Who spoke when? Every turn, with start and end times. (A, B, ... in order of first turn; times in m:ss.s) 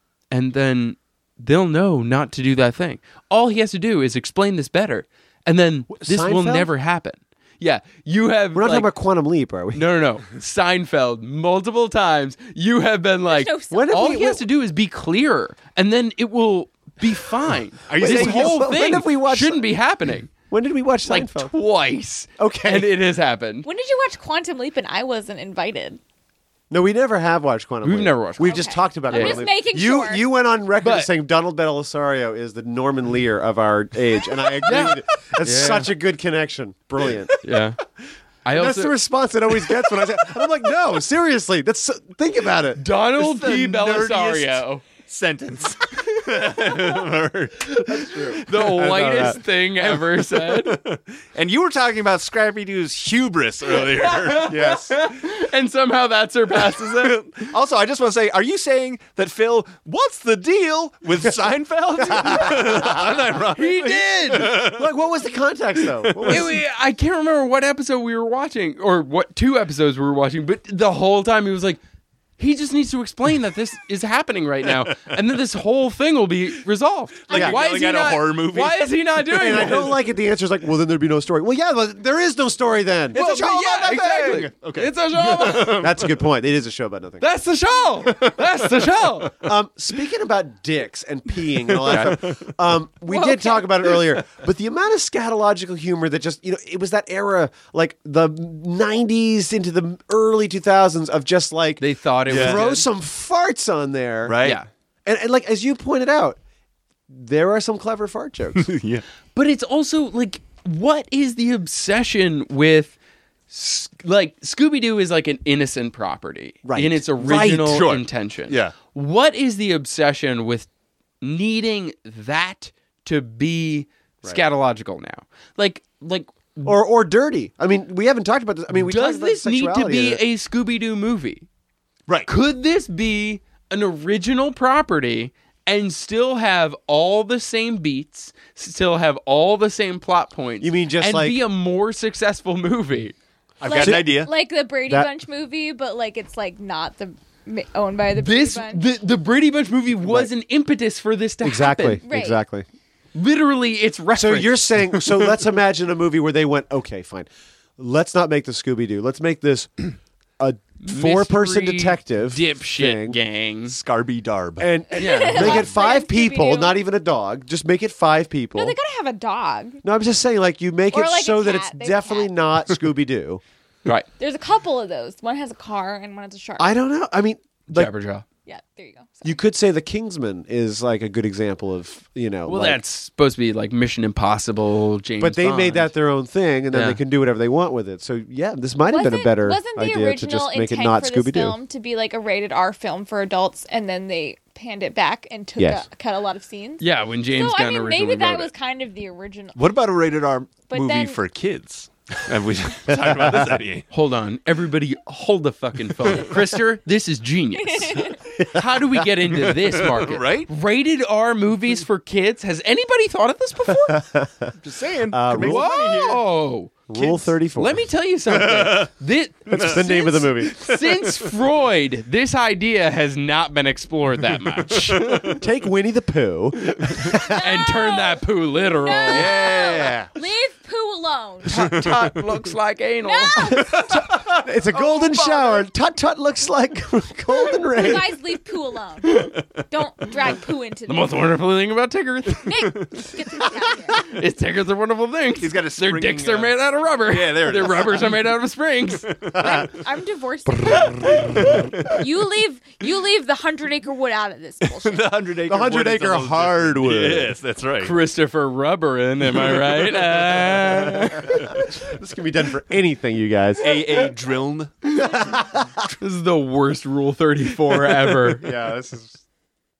0:00.3-0:08.9 A
0:05.9-0:06.7 B
0:08.5-0:09.8 B
0:09.7-0:20.3 A
0:13.3-0:14.2 C
0:13.7-0:14.4 B
0:17.9-0:18.6 D
0:17.9-0:19.7 B
0:20.5-0:21.5 B
0:21.0-0:23.6 A
0:22.4-0:22.9 B
0:23.6-0:26.0 C
0:26.7-0:37.4 B
0:27.8-0:29.4 A
0:28.4-0:30.2 C
0:30.8-0:31.1 A
0:34.6-0:35.9 A
0:37.4-0:37.8 A
0:38.4-0:39.0 A
0:38.5-0:42.8 B
0:42.8-0:44.8 A
0:43.2-0:49.3 D
0:46.3-0:47.0 A
0:47.6-0:50.8 A
0:48.7-0:49.4 B
0:49.8-0:54.7 D
0:53.7-0:57.2 A
0:54.5-0:54.9 B
0:56.8-1:04.9 D
1:02.0-1:03.2 B
1:03.5-1:04.5 A
1:04.4-1:06.5 B
1:05.9-1:06.4 D
1:06.2-1:11.8 A
1:12.4-1:20.0 A
1:17.3-1:18.9 D
1:17.3-1:17.5 C
1:17.3-1:17.6 B
1:19.3-1:23.2 B
1:23.1-1:25.8 A
1:23.1-1:26.2 D
1:25.5-1:27.2 B
1:27.2-1:29.3 A
1:29.4-1:44.4 B
1:31.7-1:32.5 D
1:33.1-1:33.9 C
1:41.8-1:42.8 A
1:42.3-1:42.6 D
1:44.3-1:44.6 D
1:45.0-1:46.4 B
1:47.1-1:48.7 B
1:48.5-1:49.0 D
1:49.4-1:53.0 A
1:53.5-2:00.7 A
1:56.6-1:57.4 B
1:57.2-1:58.7 D
2:01.2-2:06.8 A
2:06.6-2:10.2 B
2:08.7-2:11.5 A
2:12.2-2:23.1 A
2:20.6-2:21.4 B
2:23.6-2:24.3 D
2:23.6-2:28.8 C
2:23.7-2:24.2 B
2:28.2-2:32.0 A
2:30.0-2:30.3 B
2:31.4-2:32.6 B
2:32.0-2:32.4 C
2:33.1-2:34.6 A
2:34.1-2:39.8 B
2:40.4-2:43.2 B
2:40.8-2:43.8 A
2:43.7-2:44.7 D
2:44.6-2:48.8 B
2:44.9-2:46.8 C
2:45.0-2:45.6 A
2:45.3-2:45.7 D
2:48.5-2:49.8 C
2:49.8-2:53.4 B
2:50.9-2:52.3 C
2:54.2-2:56.7 C
2:56.6-2:57.9 B
2:57.7-2:58.2 A
2:58.4-2:59.4 C
2:59.2-3:02.8 B
3:02.4-3:05.9 A
3:05.2-3:11.6 B
3:06.7-3:07.0 A
3:08.9-3:19.6 C
3:15.6-3:15.8 B
3:16.8-3:18.5 A
3:19.5-3:23.8 D
3:20.7-3:21.2 C
3:22.9-3:23.6 B
3:23.9-3:34.0 A
3:26.0-3:26.4 D
3:27.6-3:28.4 C
3:28.4-3:28.8 B
3:29.4-3:30.5 D
3:33.7-3:34.5 B
3:34.6-3:36.2 D
3:35.1-3:35.6 B
3:35.3-3:45.4 A
3:36.9-3:37.8 B
3:38.3-3:38.9 D
3:39.5-3:39.9 D
3:39.6-3:40.6 B
3:40.5-3:41.3 D
3:44.6-3:45.4 D
3:45.3-3:47.4 B
3:46.8-3:49.5 A
3:47.2-3:48.2 C
3:48.7-3:51.5 C
3:49.1-3:50.1 D
3:51.4-3:53.6 A
3:51.4-3:52.5 D
3:53.0-3:54.0 C
3:53.6-3:54.2 D
3:53.6-3:58.2 B
3:55.0-3:55.5 C
3:57.5-4:01.2 C
4:00.9-4:02.6 A
4:02.4-4:04.2 C
4:03.9-4:09.1 A
4:05.4-4:08.3 D
4:09.0-4:09.8 D
4:09.4-4:09.7 B
4:09.4-4:15.1 C
4:10.9-4:11.7 A
4:11.0-4:12.0 D
4:14.6-4:17.9 D
4:15.5-4:17.4 B
4:17.8-4:21.7 A
4:19.4-4:21.5 D
4:21.2-4:23.8 B
4:23.6-4:25.4 D
4:25.0-4:25.8 B
4:26.0-4:28.5 A
4:28.2-4:29.2 B